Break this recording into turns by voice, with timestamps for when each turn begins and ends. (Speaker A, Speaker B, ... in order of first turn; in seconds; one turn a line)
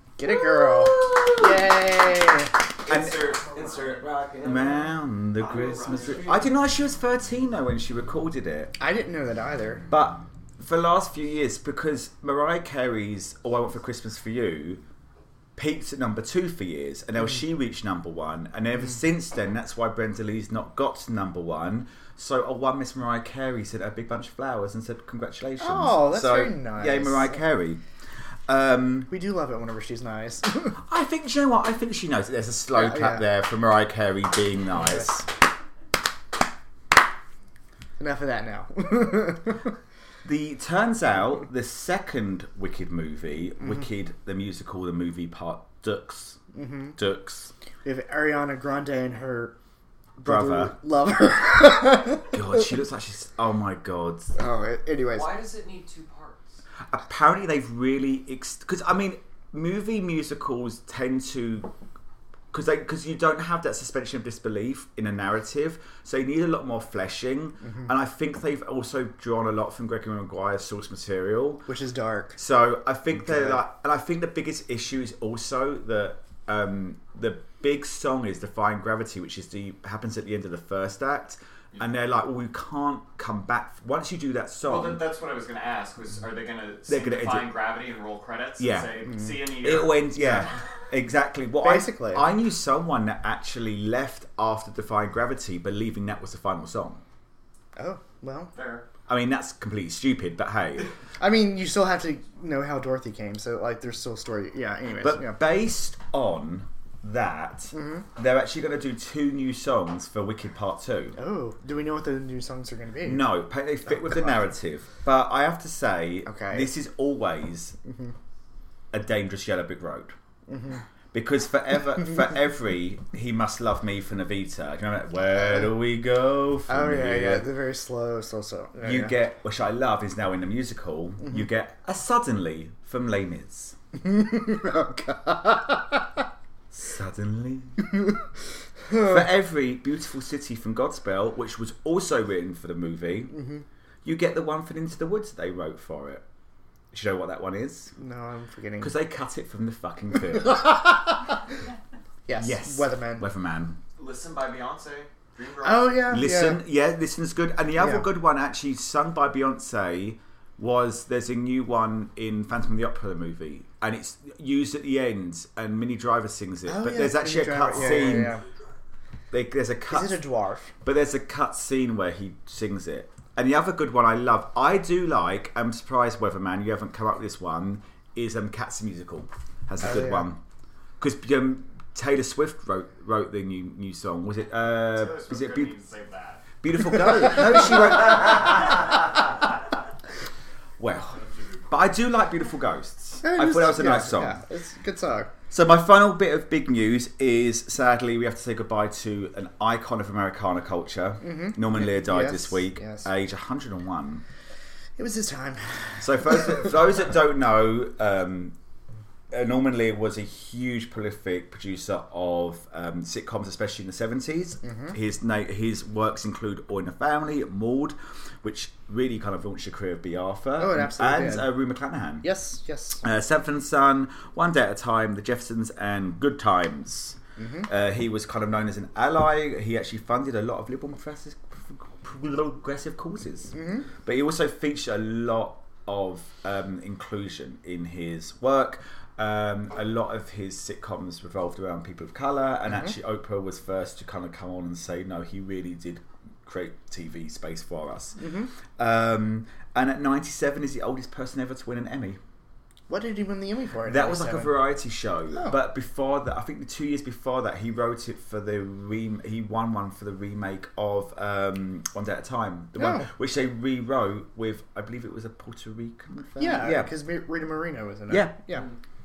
Speaker A: 0.2-2.6
Speaker B: 2.8-4.9
Speaker C: 2.9-3.2
Speaker C: 4.4-8.7
Speaker D: 5.4-6.4
Speaker B: 5.5-6.4
Speaker A: 8.8-9.8
Speaker C: 9.9-14.8
Speaker C: 15.6-27.8
Speaker A: 25.6-27.4
Speaker C: 28.5-29.1
Speaker A: 29.1-30.8
Speaker C: 30.8-35.3
Speaker A: 32.7-33.2
Speaker A: 38.0-39.6
Speaker C: 40.2-46.4
Speaker A: 46.5-47.0
Speaker C: 47.0-47.5
Speaker A: 47.8-49.5
Speaker A: 50.2-52.4
Speaker C: 50.2-50.8
Speaker C: 52.3-54.3
Speaker A: 54.4-55.3
Speaker D: 55.2-56.4
Speaker C: 56.9-61.7
Speaker C: 62.5-71.7
Speaker A: 71.7-72.4
Speaker C: 72.4-85.0
Speaker A: 73.3-73.6
Speaker D: 84.7-90.4
Speaker C: 86.9-87.5
Speaker C: 88.6-89.0
Speaker C: 89.6-97.0
Speaker A: 91.6-92.3
Speaker A: 97.8-98.5
Speaker D: 98.5-98.9
Speaker C: 99.1-100.9
Speaker A: 101.2-105.4
Speaker C: 105.0-111.2
Speaker A: 107.7-108.0
Speaker A: 111.2-113.3
Speaker C: 113.0-117.8
Speaker A: 116.3-116.7
Speaker C: 118.9-120.2
Speaker A: 120.5-120.8
Speaker C: 121.1-127.5
Speaker A: 126.7-129.1
Speaker C: 128.8-133.8
Speaker A: 134.0-136.0
Speaker C: 136.7-137.8
Speaker C: 138.9-143.4
Speaker C: 144.0-146.2
Speaker C: 146.9-147.9
Speaker A: 148.0-148.9
Speaker C: 148.8-151.0
Speaker A: 152.3-153.3
Speaker C: 152.4-153.8
Speaker D: 154.0-156.1
Speaker A: 155.6-156.6
Speaker C: 156.1-168.3
Speaker A: 157.8-158.0
Speaker A: 166.7-168.4
Speaker C: 169.3-170.2
Speaker A: 169.9-170.7
Speaker C: 170.8-180.4
Speaker A: 179.8-180.3
Speaker C: 181.0-185.7
Speaker D: 184.8-186.5
Speaker C: 186.6-189.0
Speaker C: 190.8-194.4
Speaker A: 193.2-195.3
Speaker C: 195.5-204.2
Speaker A: 201.2-203.1
Speaker A: 205.0-206.0
Speaker C: 206.0-208.6
Speaker C: 209.3-222.3
Speaker A: 214.7-214.9
Speaker A: 220.6-221.5
Speaker A: 222.2-223.0
Speaker C: 223.0-248.2
Speaker A: 227.4-227.7
Speaker A: 233.5-233.8
Speaker A: 248.2-248.5
Speaker C: 248.8-252.2
Speaker A: 252.9-254.6
Speaker C: 253.9-266.9
Speaker A: 262.8-263.1
Speaker A: 266.4-268.7
Speaker C: 268.1-268.4